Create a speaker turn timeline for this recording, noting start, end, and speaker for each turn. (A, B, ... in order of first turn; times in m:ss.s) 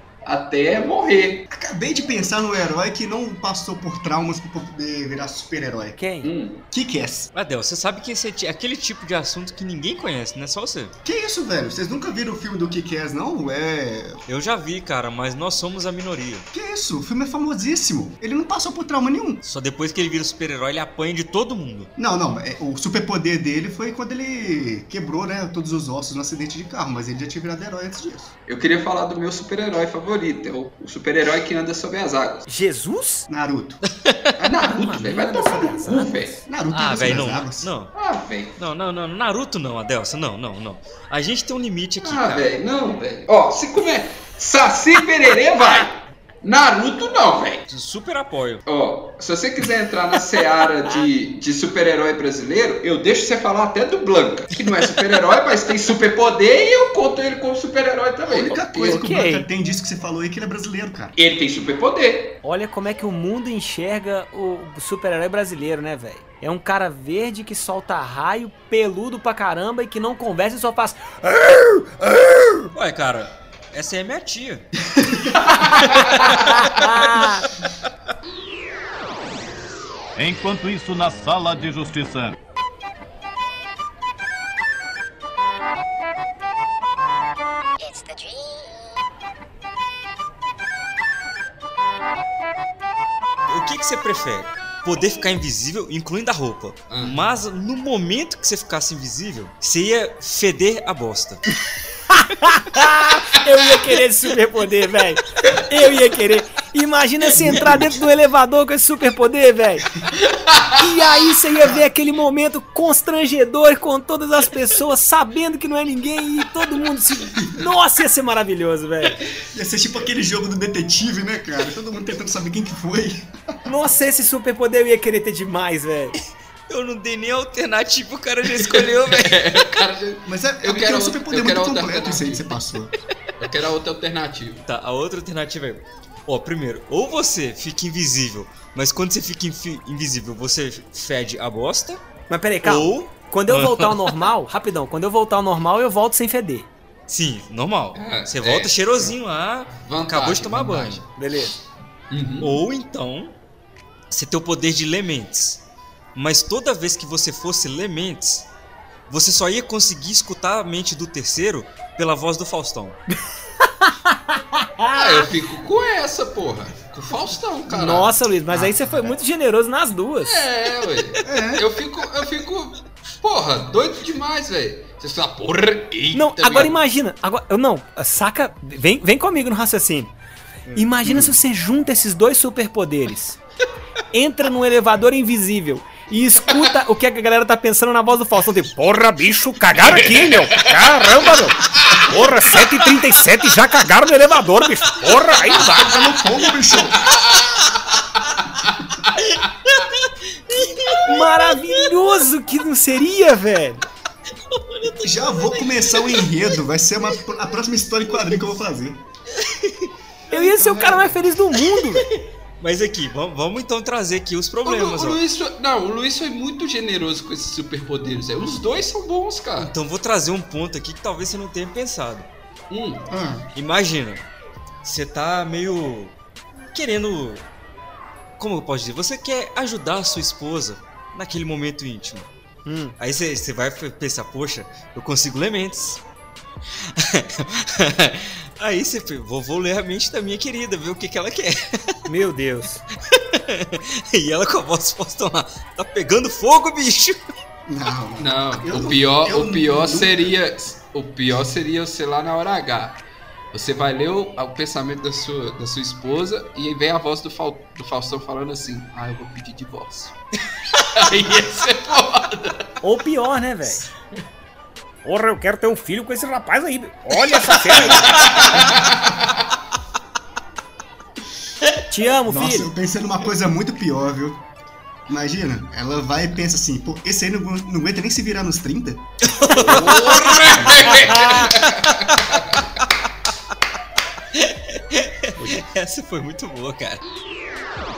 0:00.2-0:01.5 A
0:01.5-0:06.0 B
0:06.0-0:06.3 C
0:06.2-0:06.6 A
0:06.7-0:07.3 B
0:07.3-0:10.9 D
0:11.0-0:14.2 B
0:14.3-0:16.5 D
0:16.5-0:19.4 B
0:19.4-0:21.9 D
0:22.0-0:28.3 B
0:28.5-0:32.4 A
0:32.5-0:33.3 C
0:33.3-0:33.8 B
0:33.9-0:34.3 D
0:34.4-0:36.4 A
0:34.7-0:37.1 C
0:35.0-0:35.4 B
0:36.4-0:37.7 B
0:36.9-0:37.9 D
0:37.9-0:38.6 A
0:38.6-0:42.5 D
0:42.0-0:47.6 A
0:47.7-0:48.6 D
0:48.6-0:59.0 A
0:58.2-1:01.1 B
0:58.8-0:59.4 C
1:01.2-1:02.4 A
1:02.4-1:12.7 C
1:12.7-1:14.7 D
1:15.8-1:17.3 D
1:16.6-1:17.4 C
1:20.2-1:22.3 E
1:33.5-1:41.4 D
1:36.9-1:37.2 A
1:42.1-1:49.8 C
1:47.5-1:47.8 B
1:50.3-1:50.6 A
1:50.8-1:59.2 C
1:59.5-2:03.3 B
2:03.6-2:06.2 C
2:06.7-2:09.6 D
2:08.5-2:12.4 A
2:10.2-2:12.9 B
2:13.4-2:14.6 A
2:14.6-2:22.0 D
2:22.3-2:26.7 C
2:22.6-2:24.2 D
2:27.1-2:31.0 D
2:27.9-2:29.1 A
2:29.7-2:31.1 A
2:31.2-2:31.5 C
2:32.1-2:32.5 A
2:32.4-2:33.3 D
2:34.1-2:35.6 D
2:36.1-2:38.5 D
2:39.1-2:43.0 D
2:43.6-2:45.2 C
2:45.0-2:48.1 A
2:47.7-2:50.4 C
2:48.5-2:49.1 B
2:50.2-2:56.7 A
2:51.2-2:51.6 B
2:56.1-3:00.1 C
3:00.7-3:03.4 C
3:01.0-3:01.3 B
3:04.1-3:16.0 C
3:09.8-3:10.6 A
3:11.6-3:12.1 A
3:15.8-3:17.0 B
3:19.2-3:21.5 D
3:21.0-3:23.8 C
3:24.5-3:26.4 D
3:25.0-3:29.0 B
3:29.4-3:29.9 D
3:30.3-3:32.0 C
3:30.4-3:30.9 B
3:32.6-3:35.2 D
3:34.6-3:39.7 A
3:39.6-3:42.3 D
3:42.7-3:43.1 A
3:43.1-3:43.5 B
3:43.5-3:44.2 D
3:44.8-3:46.1 D
3:46.7-3:47.4 D
3:48.4-3:52.2 D
3:52.6-3:53.0 C
3:53.0-3:56.0 D
3:56.9-4:02.0 D
4:02.1-4:02.8 C
4:03.1-4:07.2 D
4:07.7-4:10.3 B
4:08.2-4:13.0 A
4:13.5-4:20.1 A
4:20.9-4:22.7 A
4:22.8-4:23.8 C
4:25.0-4:28.2 C
4:27.7-4:29.2 A
4:28.0-4:28.4 D
4:31.9-4:32.7 C
4:32.3-4:34.4 B
4:35.1-4:39.0 B
4:39.2-4:41.8 D
4:39.5-4:42.4 A
4:41.1-4:41.5 C
4:44.3-4:47.0 D